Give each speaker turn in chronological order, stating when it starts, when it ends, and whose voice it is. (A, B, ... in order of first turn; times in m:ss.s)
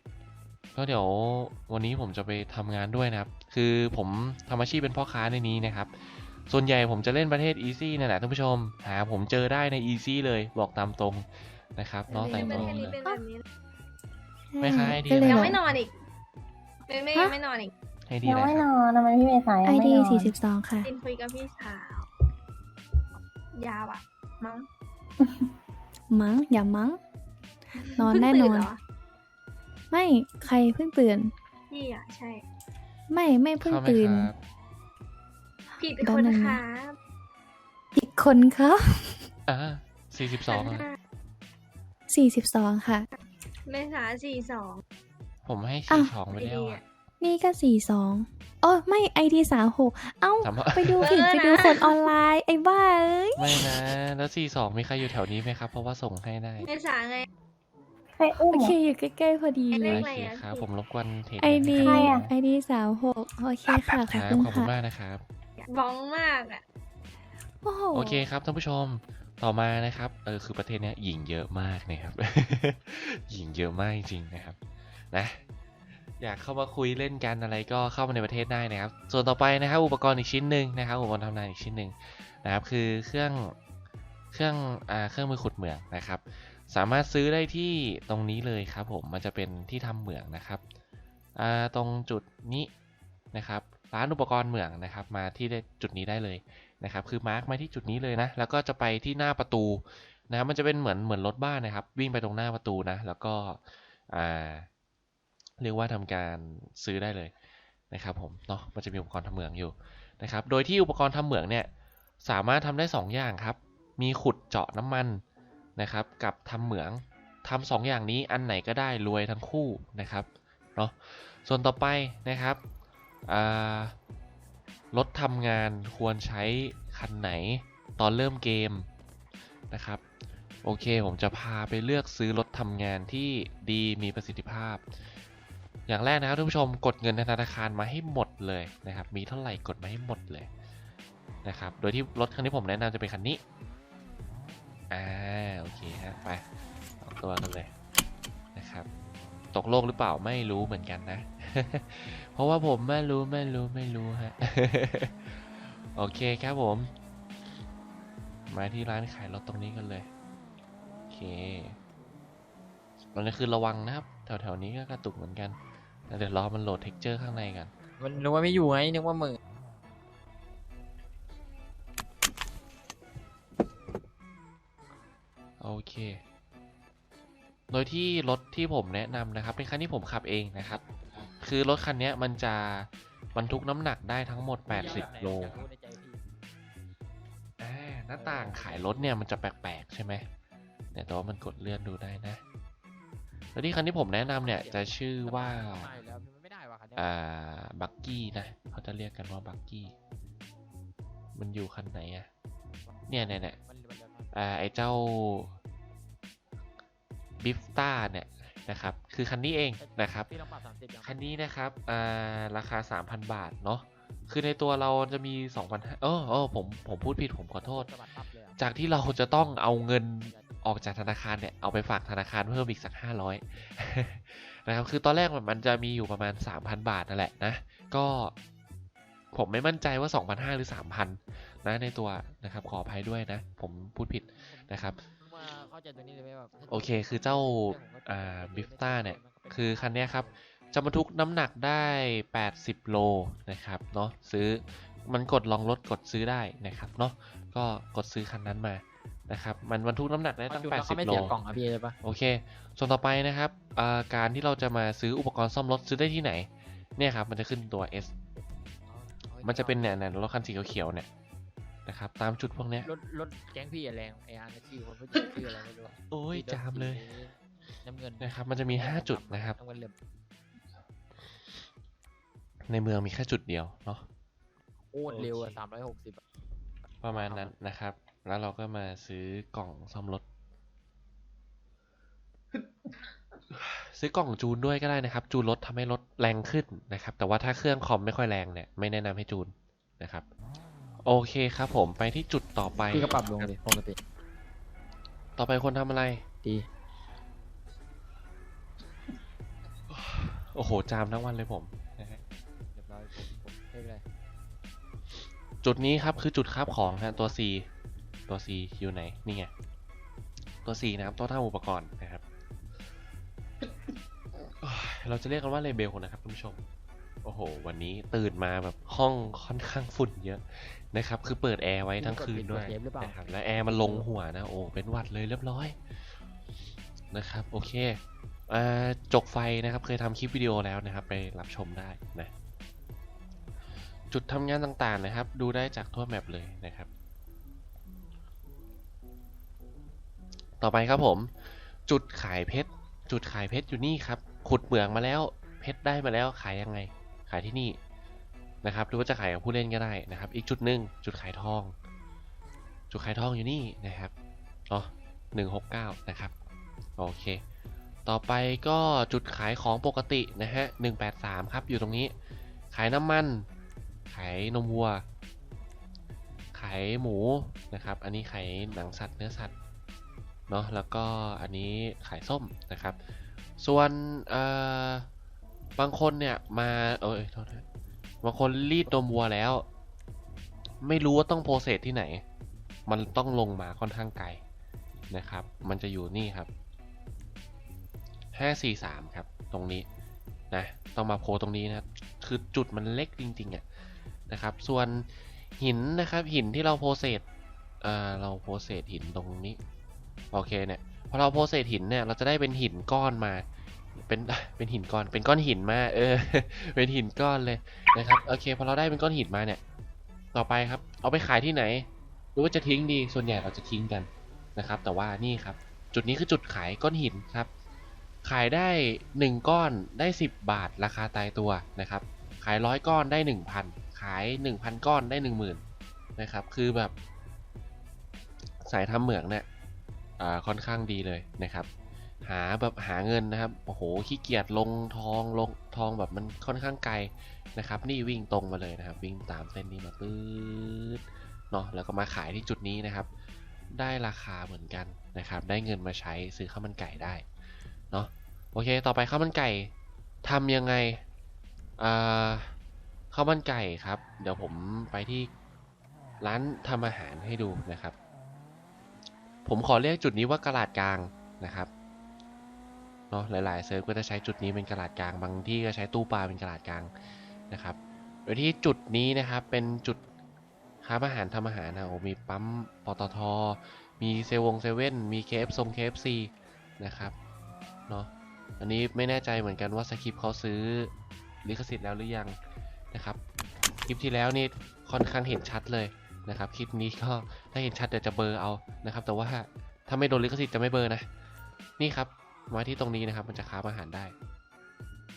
0:00.8-0:13.0 A
0:12.1-0:13.2 B
0:12.3-0:13.4 C
0:14.5-0:15.6 B
0:14.6-0:15.6 A
0:15.2-0:15.9 C
0:16.9-0:17.7 C
0:18.1-0:18.6 A
0:18.2-0:20.4 D
0:19.6-0:20.9 B
0:20.8-0:22.1 C
0:23.6-0:24.7 C
0:26.1-0:27.0 B
0:27.9-0:28.7 B
0:28.0-0:28.8 C
0:29.9-0:31.3 B
0:31.7-0:32.4 C
0:33.1-0:34.3 B
0:33.6-0:34.4 A
0:35.8-0:36.6 B
0:35.8-0:37.0 C
0:37.9-0:39.2 B
0:39.5-0:40.9 A
0:40.5-0:40.9 C
0:42.1-0:43.1 B
0:43.7-0:44.8 C
0:45.4-0:46.8 A
0:46.3-0:46.8 C
0:47.2-0:53.8 B
0:50.4-0:51.2 A
0:51.0-0:52.1 C
0:53.4-0:56.7 A
0:56.6-0:57.3 C
0:58.2-0:58.8 D
0:58.4-1:00.1 B
0:59.7-1:00.7 C
0:59.8-1:02.3 A
1:01.4-1:04.7 B
1:01.8-1:02.2 D
1:03.7-1:05.2 A
1:05.6-1:06.6 C
1:07.6-1:08.2 B
1:07.9-1:14.6 A
1:15.1-1:15.4 A
1:16.2-1:23.6 A
1:24.3-1:30.6 A
1:31.4-1:32.7 A
1:33.3-1:44.7 A
1:45.6-1:47.3 A
1:47.9-1:51.7 A
1:52.2-1:55.2 A
1:55.8-2:02.6 A
2:03.2-2:04.0 A
2:04.9-2:08.9 A
2:09.7-2:10.0 A
2:10.6-2:14.9 A
2:15.9-2:20.5 A
2:21.4-2:23.4 A
2:24.9-2:26.4 A
2:27.0-2:27.7 A
2:28.5-2:28.9 A
2:29.5-2:36.9 A
2:38.5-2:40.1 A
2:41.1-2:41.8 A
2:43.1-2:45.6 A
2:46.1-2:47.7 A
2:48.0-2:49.4 E
2:55.6-2:56.2 A
2:57.7-3:00.8 A
3:01.4-3:05.6 A
3:04.7-3:06.2 E
3:07.6-3:10.2 A
3:08.1-3:09.1 E
3:10.9-3:12.4 A
3:13.5-3:15.9 A
3:14.2-3:17.1 E
3:17.0-3:19.9 A
3:21.4-3:22.3 A
3:22.9-3:24.3 E
3:23.1-3:23.6 A
3:24.3-3:25.5 A
3:27.4-3:30.3 A
3:29.8-3:31.3 E
3:31.0-3:37.9 A
3:37.6-3:38.6 E
3:38.6-3:48.3 A
3:40.3-3:40.6 E
3:49.3-3:55.0 A
3:54.5-4:00.4 E
3:56.7-4:11.4 A
4:10.5-4:12.0 E
4:12.0-4:18.1 A
4:18.4-4:20.0 E
4:19.4-4:21.1 A
4:21.9-4:22.9 A
4:22.8-4:30.0 E
4:26.1-4:27.1 A
4:28.2-4:29.6 A
4:32.7-4:34.0 A
4:34.8-4:36.2 E
4:35.1-4:35.6 A
4:37.0-4:40.2 A
4:37.2-4:37.5 E
4:43.6-4:50.2 A
4:51.0-4:53.5 A
4:52.9-4:54.0 E
4:55.4-4:56.2 A
4:59.9-5:02.2 A
5:02.7-5:04.0 E
5:05.6-5:07.6 A
5:06.8-5:07.4 E
5:08.3-5:09.5 A
5:10.6-5:12.2 A
5:14.6-5:16.6 A
5:17.2-5:25.8 A
5:22.0-5:24.1 E
5:27.1-5:32.3 A
5:34.1-5:36.9 A
5:40.6-5:41.3 A
5:41.9-5:47.8 A
5:48.6-5:51.7 A
5:52.9-5:54.1 A
5:54.7-5:56.3 A
5:57.0-5:57.4 A
5:58.0-6:02.1 A
6:02.7-6:03.5 A
6:04.1-6:05.0 A
6:06.5-6:09.5 A
6:10.5-6:13.0 A
6:13.6-6:15.1 A
6:15.8-6:17.6 A
6:18.2-6:19.6 A
6:20.8-6:22.2 A
6:22.9-6:24.4 A
6:25.1-6:26.5 A
6:28.4-6:29.9 A
6:30.5-6:33.6 A
6:34.3-6:37.2 A
6:37.8-6:39.6 A
6:40.3-6:43.4 A
6:44.0-6:49.6 A
6:50.3-6:57.5 A
6:58.2-7:05.6 A
7:06.2-7:06.9 A
7:08.6-7:09.5 A
7:10.2-7:11.7 A
7:12.2-7:23.1 A
7:23.7-7:27.2 A
7:27.9-7:29.7 A
7:30.2-7:31.0 A
7:31.8-7:32.5 A
7:33.1-7:35.3 A
7:36.2-7:38.0 A
7:39.4-7:41.7 A
7:43.1-7:46.9 A
7:47.5-7:50.0 A
7:50.8-7:57.1 A
7:57.9-8:00.9 A
8:01.4-8:02.4 A
8:02.9-8:03.2 A
8:03.8-8:11.1 A
8:11.8-8:14.1 A